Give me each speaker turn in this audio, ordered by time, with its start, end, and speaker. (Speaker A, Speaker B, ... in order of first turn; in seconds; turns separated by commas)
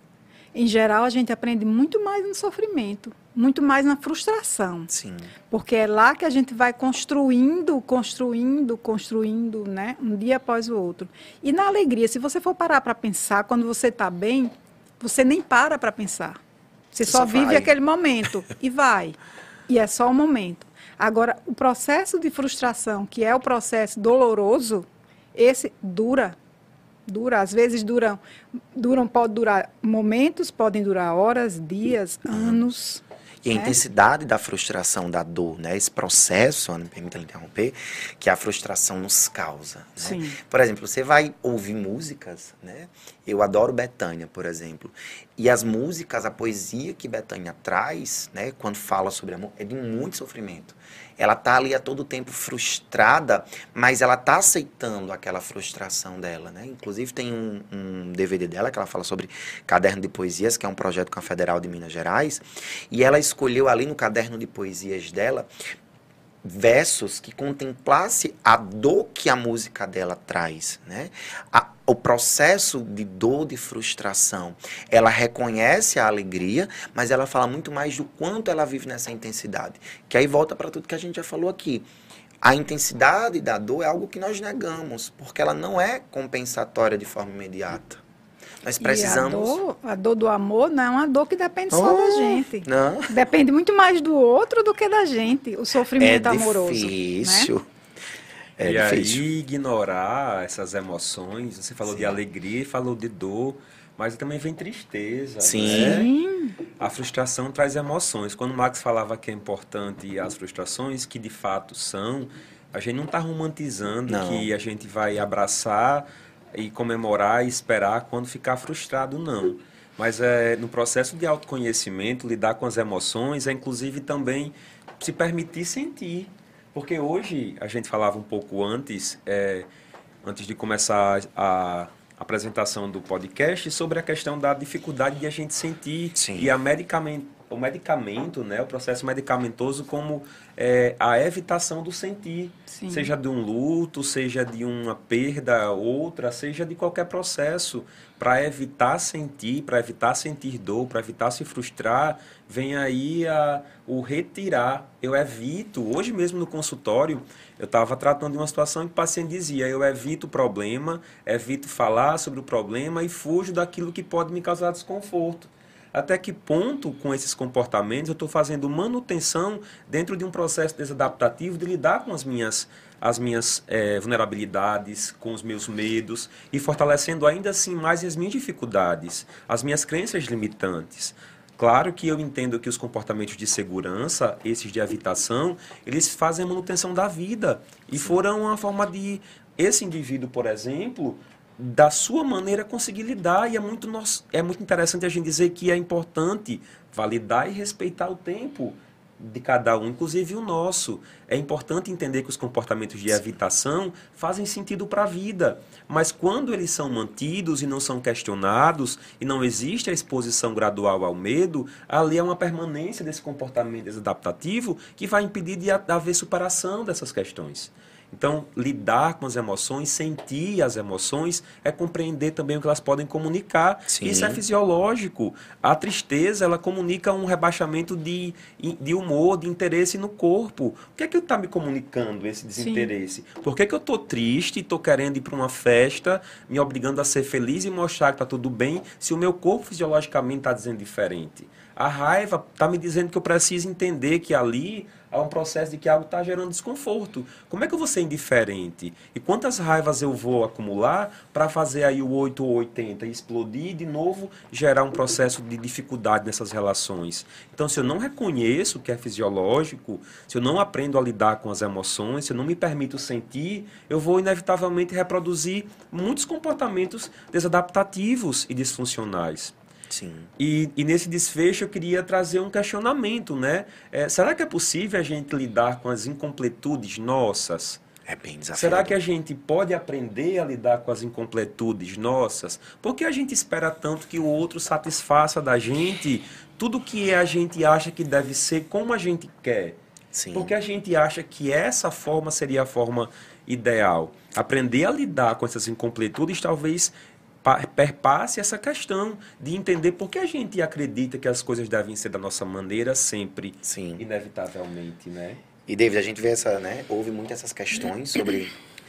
Speaker A: 0.5-4.9, Speaker B: 4.9-5.3, Speaker A: 5.5-16.4, Speaker A: 16.9-19.2, Speaker B: 17.0-17.7, Speaker A: 19.7-26.4, Speaker A: 27.1-28.2, Speaker A: 28.7-33.8, Speaker B: 32.3-32.7, Speaker B: 33.4-65.5, Speaker A: 40.0-40.4, Speaker B: 66.4-81.8, Speaker B: 82.4-88.0, Speaker B: 88.6-89.6, Speaker A: 88.8-97.5, Speaker B: 91.7-93.1, Speaker B: 96.0-97.7, Speaker B: 98.6-99.2, Speaker C: 98.6-106.1, Speaker B: 101.8-102.2, Speaker B: 105.4-106.1, Speaker A: 105.7-106.5, Speaker C: 106.8-129.7, Speaker B: 114.1-114.5, Speaker C: 130.2-269.5, Speaker B: 136.2-136.5, Speaker A: 142.7-143.1, Speaker B: 223.9-224.4, Speaker A: 232.6-232.9, Speaker B: 269.9-270.3, Speaker C: 270.4-277.8, Speaker B: 278.1-279.0, Speaker C: 278.5-289.8, Speaker B: 290.1-290.5, Speaker C: 290.3-305.4, Speaker B: 303.6-304.0, Speaker B: 305.7-308.5